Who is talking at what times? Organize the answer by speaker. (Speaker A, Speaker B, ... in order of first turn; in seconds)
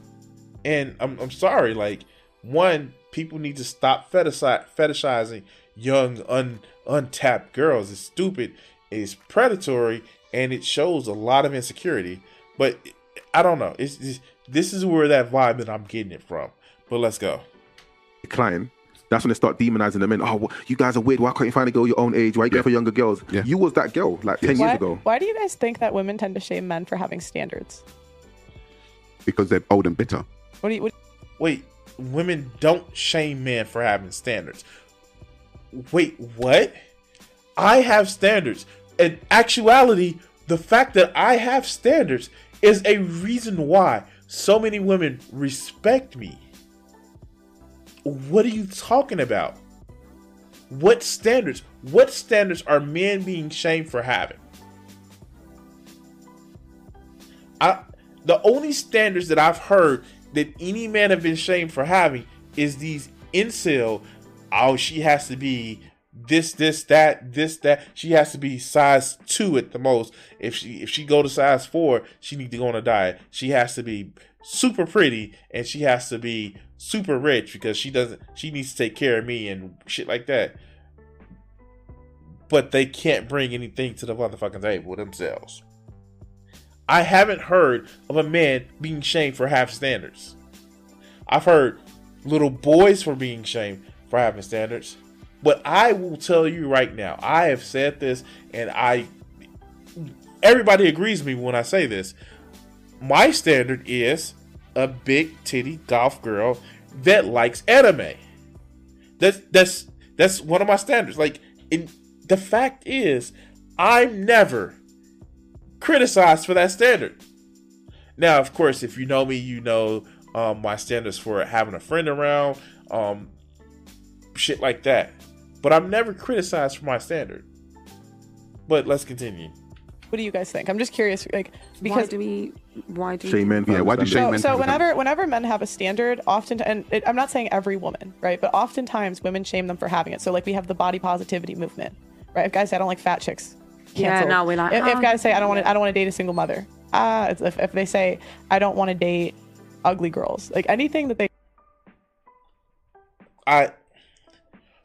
Speaker A: 0.6-17.4, 31.4-34.6, 35.7-36.8, 37.6-46.4, 48.0-49.6, 50.7-54.4, 57.6-80.6, 82.5-85.6, 86.9-90.3, 91.3-99.1, 100.0-102.1, 103.0-108.2, 109.2-114.8, 115.8-117.2, 118.2-123.3, 124.3-127.5, 128.7-129.5, 153.5-153.7
Speaker B: 18.2-25.0, 133.2-134.7
Speaker C: 24.4-24.7, 29.2-30.2, 133.7-134.8
Speaker D: 24.5-27.8, 30.6-30.9, 130.1-132.1, 134.1-151.3
Speaker E: 131.8-133.6, 143.9-145.7